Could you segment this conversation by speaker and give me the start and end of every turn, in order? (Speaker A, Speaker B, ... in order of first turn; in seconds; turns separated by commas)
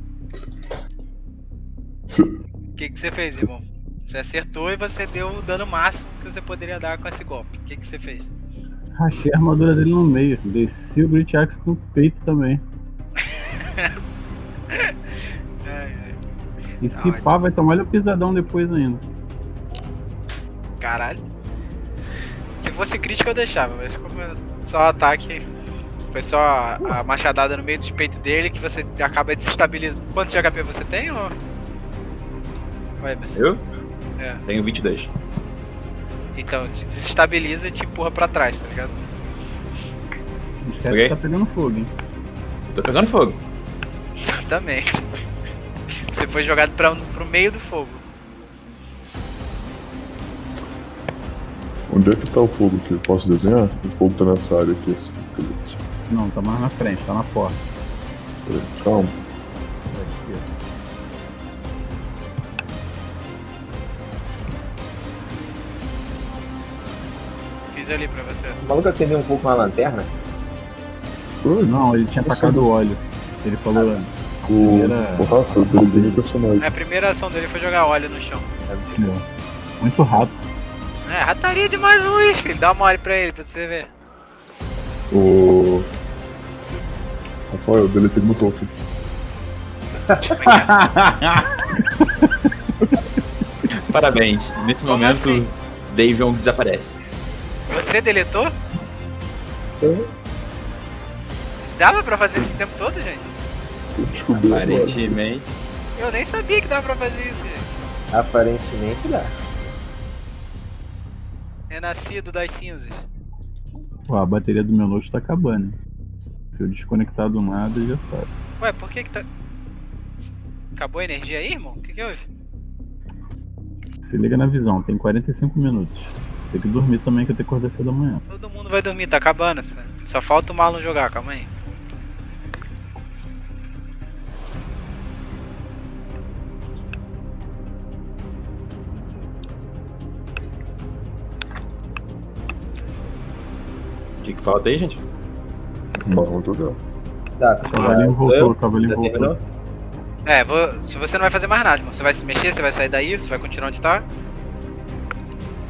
Speaker A: 2.1-2.4, Speaker B: 2.8-8.3, Speaker C: 8.9-12.6, Speaker B: 13.2-14.0, Speaker B: 15.6-16.2, Speaker C: 16.8-19.0, Speaker B: 16.9-17.3, Speaker B: 20.8-21.2, Speaker B: 22.6-25.4, Speaker B: 26.1-31.4, Speaker B: 33.0-33.4, Speaker D: 33.3-33.6, Speaker B: 34.2-34.4, Speaker D: 34.5-35.1, Speaker B: 36.4-38.9, Speaker C: 40.6-41.9, Speaker D: 40.9-41.2, Speaker D: 42.7-43.4, Speaker B: 44.2-45.1, Speaker B: 46.1-48.0, Speaker A: 51.9-55.8, Speaker C: 56.1-57.6, Speaker A: 58.5-59.2, Speaker C: 59.9-60.5, Speaker B: 67.7-68.6, Speaker E: 68.6-70.1, Speaker A: 71.4-72.7, Speaker C: 71.6-76.2, Speaker A: 74.5-76.7, Speaker B: 76.6-78.5, Speaker E: 78.7-79.0, Speaker C: 79.0-79.2, Speaker C: 79.8-80.4, Speaker B: 81.1-83.9, Speaker A: 85.1-85.9, Speaker A: 87.5-88.7, Speaker D: 90.2-91.5, Speaker B: 90.4-90.7, Speaker D: 93.9-97.0, Speaker B: 94.9-95.5, Speaker B: 97.7-98.5, Speaker E: 99.8-100.1, Speaker B: 101.7-103.3, Speaker A: 104.0-105.2, Speaker D: 104.5-105.5, Speaker B: 106.0-107.7, Speaker E: 108.1-109.3, Speaker B: 111.7-113.0, Speaker C: 114.1-115.8, Speaker C: 116.5-118.3, Speaker B: 118.6-119.2, Speaker B: 120.8-122.2, Speaker C: 124.0-128.2, Speaker B: 128.3-131.5, Speaker D: 144.2-145.0, Speaker A: 146.0-146.8, Speaker E: 147.4-149.4, Speaker C: 147.6-149.3, Speaker B: 150.3-154.1